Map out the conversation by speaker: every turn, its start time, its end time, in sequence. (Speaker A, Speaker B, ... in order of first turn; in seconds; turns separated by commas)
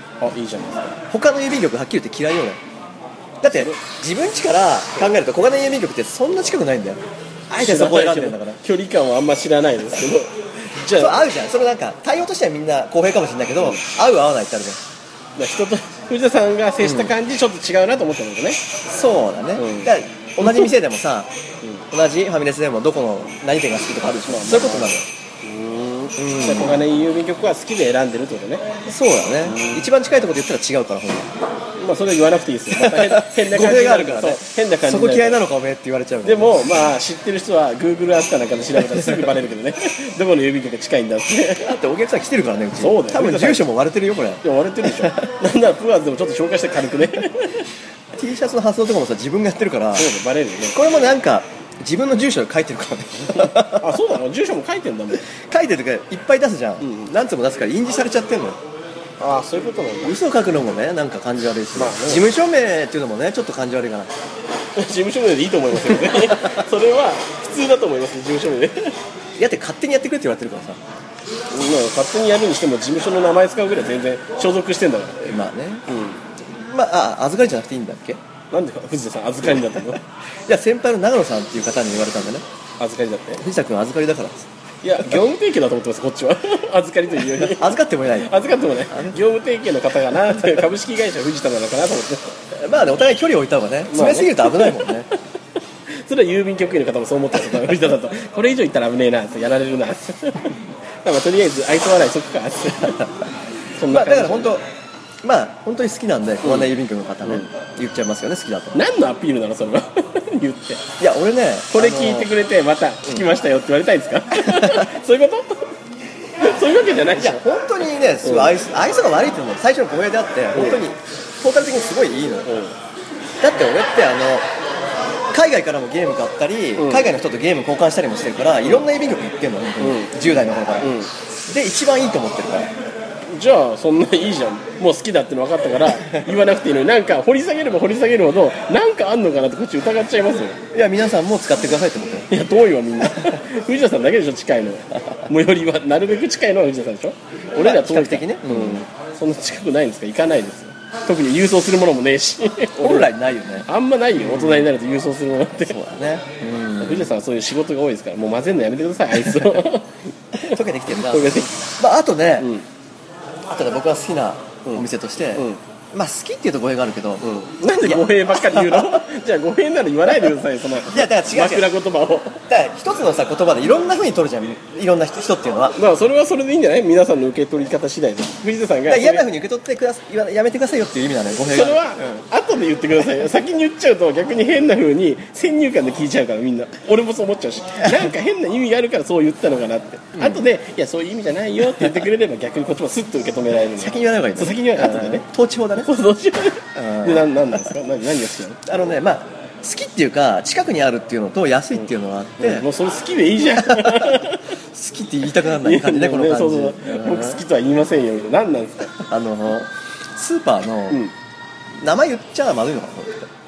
Speaker A: 0.2-1.0, Speaker B: 1.1-2.6, Speaker B: 3.4-8.6, Speaker A: 3.5-3.8, Speaker A: 7.6-11.2, Speaker B: 11.0-14.8, Speaker A: 15.4-18.6, Speaker B: 16.8-17.1, Speaker B: 18.9-21.3, Speaker A: 19.6-19.9, Speaker A: 20.4-20.7, Speaker B: 21.9-25.1, Speaker A: 24.3-28.6, Speaker B: 26.2-26.8, Speaker B: 28.9-31.3, Speaker A: 29.4-29.8, Speaker A: 31.8-35.4, Speaker B: 32.7-36.5, Speaker A: 36.2-41.8, Speaker B: 38.8-39.3, Speaker B: 41.6-44.4, Speaker A: 42.8-43.7, Speaker A: 44.4-47.6, Speaker B: 45.0-45.2, Speaker B: 48.1-50.1, Speaker A: 49.9-50.8, Speaker B: 50.7-54.0, Speaker A: 53.3-55.3, Speaker B: 55.2-58.6, Speaker A: 56.8-57.1, Speaker A: 59.2-60.2, Speaker B: 60.0-64.1, Speaker A: 61.8-62.2, Speaker A: 64.8-69.0, Speaker B: 65.8-66.6, Speaker B: 69.4-70.8, Speaker A: 71.5-75.2, Speaker B: 75.2-75.8, Speaker A: 75.9-76.2, Speaker B: 76.4-78.2, Speaker A: 78.5-80.0, Speaker B: 80.5-82.4, Speaker A: 82.8-83.4, Speaker B: 83.4-84.5, Speaker A: 84.8-92.3, Speaker B: 87.3-88.3, Speaker B: 88.9-89.2, Speaker B: 92.5-95.1, Speaker A: 93.9-95.2, Speaker A: 95.9-103.0, Speaker A: 103.8-104.5, Speaker B: 103.9-104.6, Speaker B: 105.2-108.8, Speaker A: 106.4-106.7, Speaker A: 107.2-107.5, Speaker A: 108.7-110.8, Speaker B: 111.0-112.3, Speaker A: 111.7-115.7, Speaker B: 114.4-114.9, Speaker A: 116.4-117.4, Speaker B: 117.2-122.5, Speaker A: 118.2-118.5, Speaker A: 120.5-120.8, Speaker A: 122.4-122.8, Speaker B: 123.4-124.5, Speaker B: 125.3-132.7, Speaker A: 126.8-127.1, Speaker A: 129.8-130.2, Speaker A: 130.8-131.1, Speaker A: 133.2-140.6, Speaker B: 140.7-142.3, Speaker A: 142.3-153.1, Speaker B: 147.5-148.8, Speaker B: 152.8-154.7, Speaker A: 153.7-155.8, Speaker B: 155.7-157.1, Speaker A: 156.8-161.6, Speaker B: 160.4-162.5, Speaker A: 162.4-162.6, Speaker B: 163.5-169.0, Speaker A: 164.6-165.6, Speaker A: 167.2-172.4, Speaker B: 170.9-171.7, Speaker B: 172.5-175.8, Speaker A: 175.8-179.3, Speaker B: 178.9-182.2, Speaker A: 181.5-195.3, Speaker B: 190.2-190.4, Speaker B: 193.8-195.9, Speaker A: 195.8-198.6, Speaker B: 196.8-197.7, Speaker B: 198.7-202.7, Speaker A: 202.4-204.5, Speaker B: 203.6-207.4, Speaker A: 205.5-208.9, Speaker B: 209.0-211.0, Speaker B: 211.8-213.3